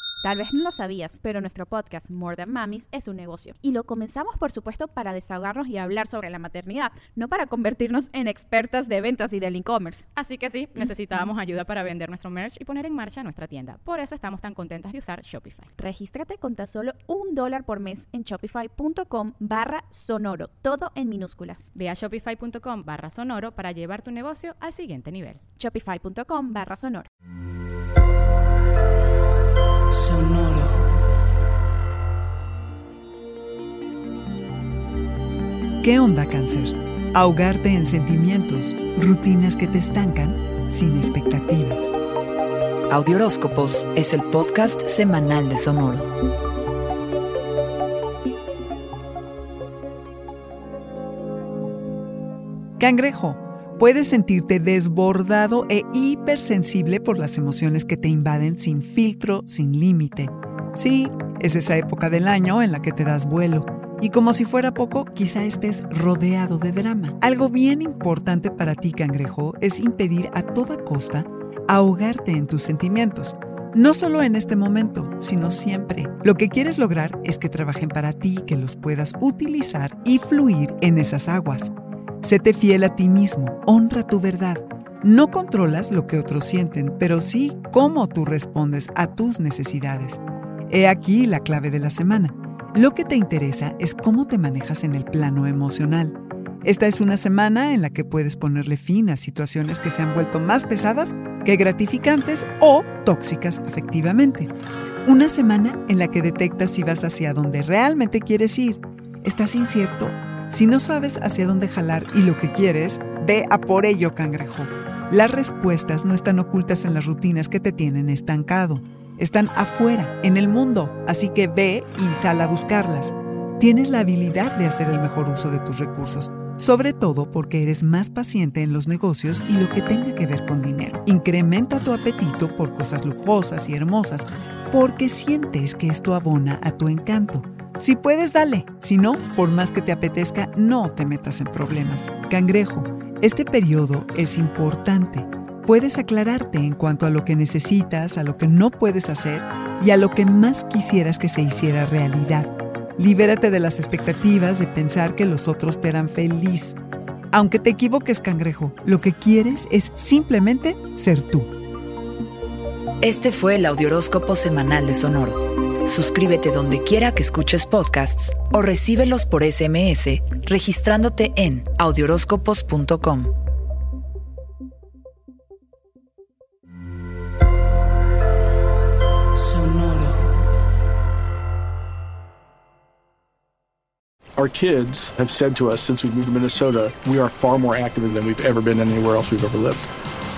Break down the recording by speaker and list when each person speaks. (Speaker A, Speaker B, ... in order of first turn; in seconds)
Speaker A: 0.2-10.0, 15.8-21.7, 25.6-27.1
Speaker B: 10.1-15.7, 21.7-25.4
Speaker C: 35.8-41.9, 52.8-81.7, 82.2-104.5, 105.0-156.8, 157.3-161.5
Speaker D: 42.9-46.0, 163.0-173.3
Speaker E: 184.4-189.9